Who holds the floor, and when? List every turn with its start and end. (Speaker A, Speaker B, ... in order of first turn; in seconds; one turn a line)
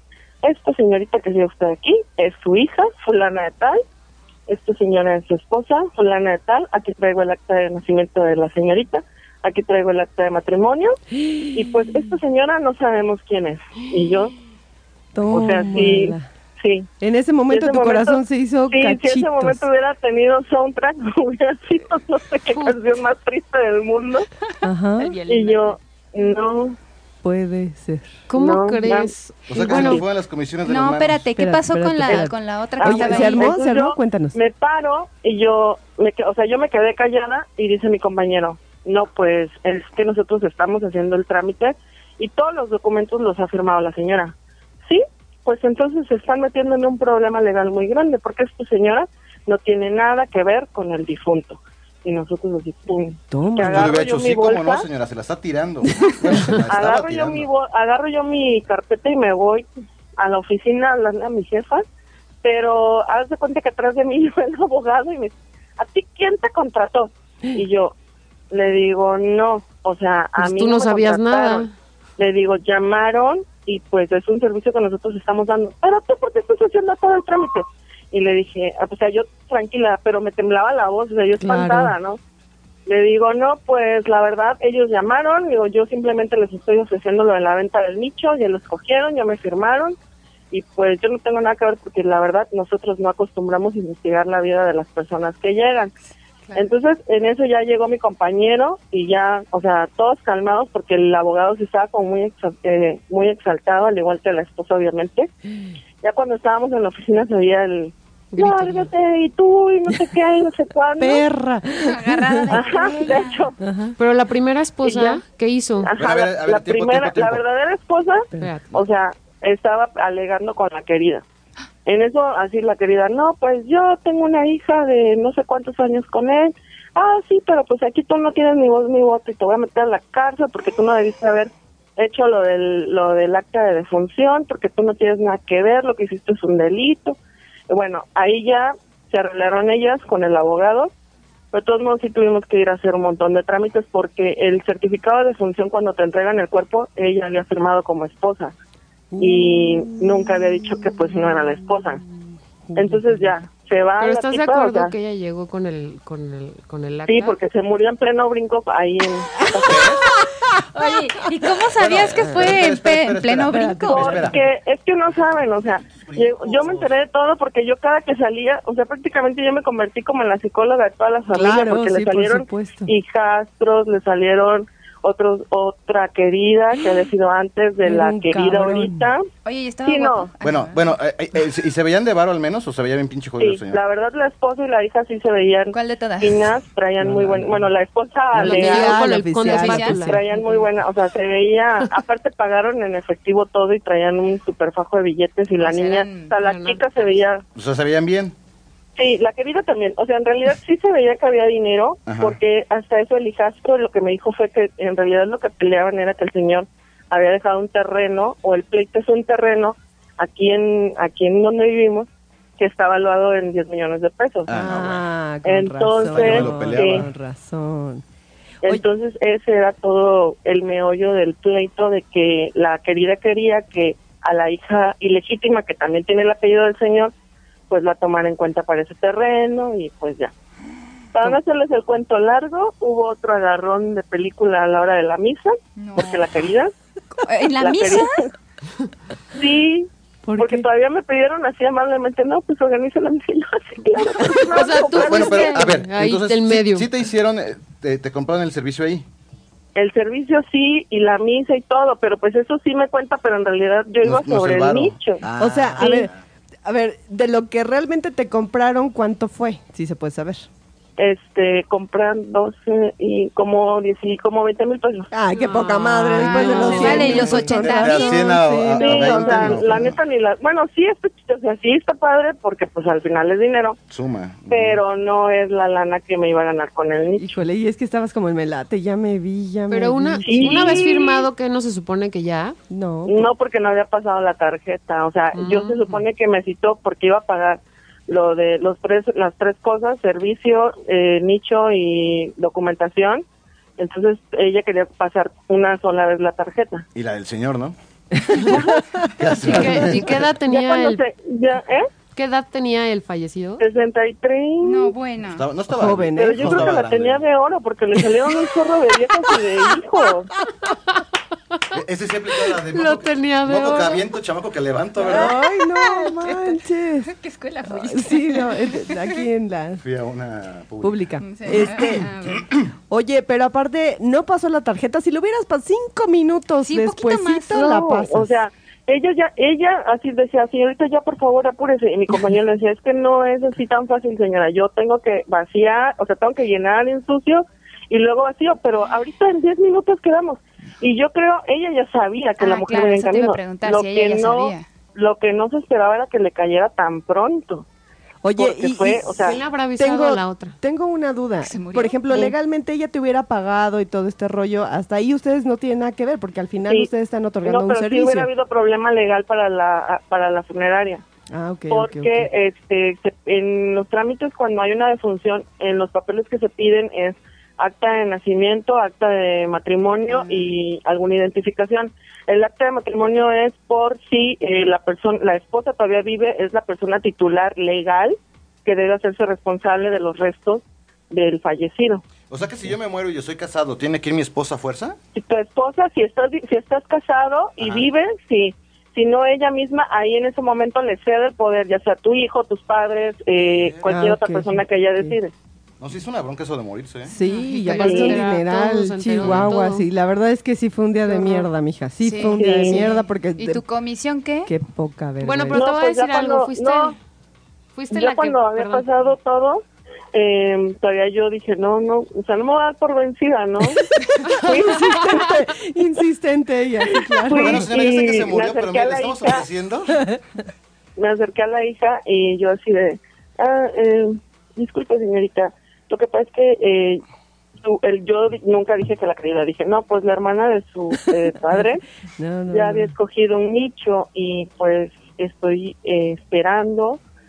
Speaker A: 0.4-3.8
Speaker A: 4.5-11.0
Speaker B: 11.2-11.6
Speaker A: 11.5-14.3
Speaker B: 15.1-16.3
Speaker A: 15.3-16.9
Speaker B: 17.0-19.6
Speaker A: 17.5-24.3
Speaker B: 24.6-25.2
Speaker C: 25.0-25.8
Speaker A: 25.3-26.8
Speaker B: 27.2-28.2
Speaker D: 28.3-30.0
Speaker A: 28.3-29.1
Speaker E: 29.5-31.3
Speaker A: 29.7-30.0
Speaker C: 30.6-33.5
Speaker B: 31.4-34.4
Speaker A: 32.8-54.9
Speaker B: 53.3-54.0
Speaker E: 53.7-57.5
Speaker A: 56.7-59.7
Speaker A: 60.2-61.9
Speaker A: 62.4-67.9
Speaker A: 68.5-82.2
Speaker D: 70.4-71.7
Speaker B: 81.4-82.0
Speaker A: 82.9-90.0
Speaker A: 90.5-95.9
Speaker A: 96.5-105.3
Speaker A: 106.0-111.2
Speaker D: 108.3-108.9
Speaker B: 111.0-112.7
Speaker C: 111.8-113.5
Speaker A: 112.5-113.6
Speaker B: 113.6-114.0
Speaker D: 114.0-115.9
Speaker A: 114.8-115.2
Speaker A: 115.8-121.2
Speaker E: 116.0-117.4
Speaker D: 118.4-118.7
Speaker A: 121.9-137.2
Speaker A: 137.7-140.9
Speaker A: 141.5-148.5
Speaker B: 149.1-151.4
Speaker A: 149.2-152.0
Speaker B: 152.7-153.4
Speaker A: 152.8-154.9
Speaker D: 154.0-157.4
Speaker A: 157.1-159.9
Speaker B: 159.4-160.4
Speaker E: 159.7-160.2
Speaker C: 160.7-164.3
Speaker E: 161.8-164.4
Speaker B: 162.2-162.6
Speaker B: 163.5-164.4
Speaker A: 163.9-179.3
Speaker E: 165.9-166.9
Speaker B: 171.3-172.9
Speaker B: 177.8-179.1
Speaker C: 179.4-181.0
Speaker A: 179.8-180.3
Speaker E: 180.4-183.8
Speaker A: 183.4-189.0
Speaker C: 185.7-186.4
Speaker B: 187.0-187.5
Speaker B: 188.3-190.2
Speaker D: 188.4-190.2
Speaker C: 189.4-190.0
Speaker A: 189.9-197.4
Speaker C: 195.6-196.3
Speaker D: 196.4-196.8
Speaker E: 197.6-198.3
Speaker A: 199.0-214.6
Speaker E: 202.1-202.4
Speaker E: 214.5-215.1
Speaker B: 214.5-218.0
Speaker A: 215.4-217.0
Speaker E: 216.0-217.1
Speaker A: 218.6-227.1
Speaker A: 227.7-230.3
Speaker A: 231.1-236.7
Speaker C: 235.8-236.3
Speaker C: 237.2-238.3
Speaker A: 237.6-238.3
Speaker A: 239.3-245.7
Speaker B: 240.2-240.7
Speaker D: 244.5-246.9
Speaker E: 245.0-249.1
Speaker A: 249.8-255.2
Speaker E: 254.0-256.2
Speaker B: 255.4-256.1
Speaker A: 255.8-256.1
Speaker B: 256.6-260.5
Speaker A: 261.0-265.1
Speaker B: 265.1-269.9
Speaker D: 265.4-267.4
Speaker C: 266.2-268.3
Speaker E: 266.9-270.0
Speaker A: 268.8-273.8
Speaker E: 273.9-274.8
Speaker A: 274.5-277.4
Speaker B: 277.2-280.9
Speaker D: 279.7-282.6
Speaker A: 280.2-281.3
Speaker B: 282.7-283.3
Speaker A: 283.1-293.2
Speaker D: 285.4-286.0
Speaker A: 293.8-296.9
Speaker E: 296.9-297.8
Speaker B: 298.2-299.6
Speaker E: 299.2-300.3
Speaker D: 299.4-301.0
Speaker A: 300.5-301.9
Speaker D: 302.1-303.6
Speaker A: 303.6-304.9
Speaker C: 304.6-305.5
Speaker E: 305.2-307.2
Speaker B: 305.7-306.7
Speaker A: 306.1-310.3
Speaker E: 311.7-315.4
Speaker D: 312.7-314.1
Speaker B: 315.0-317.1
Speaker C: 315.6-319.2
Speaker B: 317.7-319.8
Speaker E: 319.8-322.5
Speaker B: 320.8-322.1
Speaker C: 321.2-322.5
Speaker B: 322.9-328.4
Speaker C: 326.6-327.7
Speaker A: 327.5-347.6
Speaker C: 342.4-344.7
Speaker B: 348.2-358.3
Speaker A: 348.4-349.4
Speaker D: 349.2-350.6
Speaker C: 351.4-352.3
Speaker A: 357.4-361.0
Speaker B: 361.3-362.3
Speaker A: 361.7-382.0
Speaker C: 370.1-370.5
Speaker E: 382.3-385.0
Speaker A: 385.1-395.3
Speaker E: 387.6-387.9
Speaker E: 393.4-393.9
Speaker B: 393.9-395.2
Speaker E: 395.8-397.1
Speaker B: 397.1-403.6
Speaker C: 397.1-398.0
Speaker D: 397.5-399.9
Speaker A: 397.8-398.2
Speaker E: 399.2-399.5
Speaker D: 401.1-401.4
Speaker C: 402.0-404.5
Speaker A: 402.4-402.8
Speaker B: 404.5-405.7
Speaker D: 405.2-407.0
Speaker A: 405.5-407.0
Speaker D: 407.8-408.9
Speaker A: 407.9-415.3
Speaker B: 414.0-417.7
Speaker A: 416.9-419.5
Speaker E: 417.4-420.1
Speaker A: 421.0-427.0
Speaker A: 427.6-431.8
Speaker B: 432.2-432.9
Speaker A: 432.5-437.0